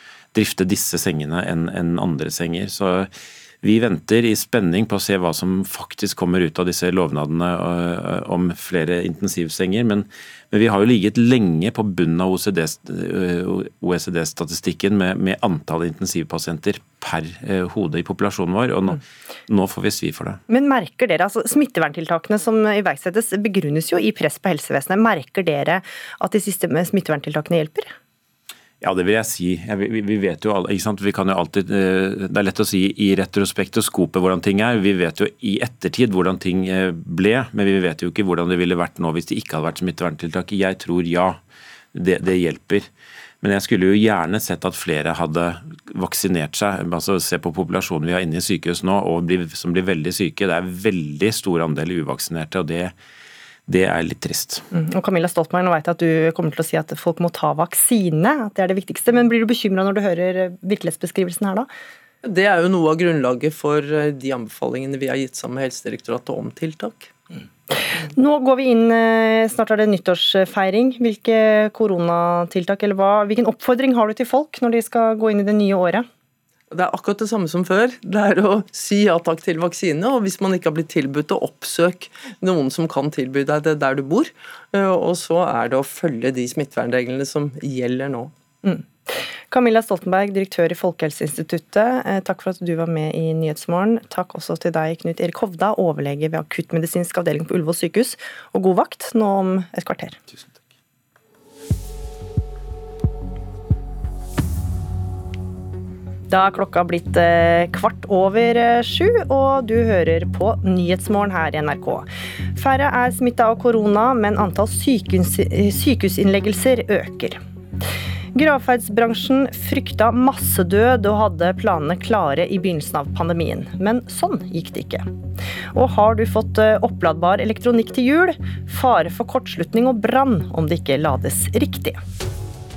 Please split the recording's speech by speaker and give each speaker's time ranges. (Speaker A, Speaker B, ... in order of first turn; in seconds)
Speaker A: 0.3-3.1, 3.6-20.4, 28.8-41.4, 41.9-42.9, 43.4-52.9, 53.7-54.6
Speaker B: 20.5-27.9, 54.7-61.7, 67.7-76.1, 88.6-100.2, 106.3-117.4, 118.3-125.1, 125.7-132.0
Speaker C: 62.2-67.1, 76.7-88.3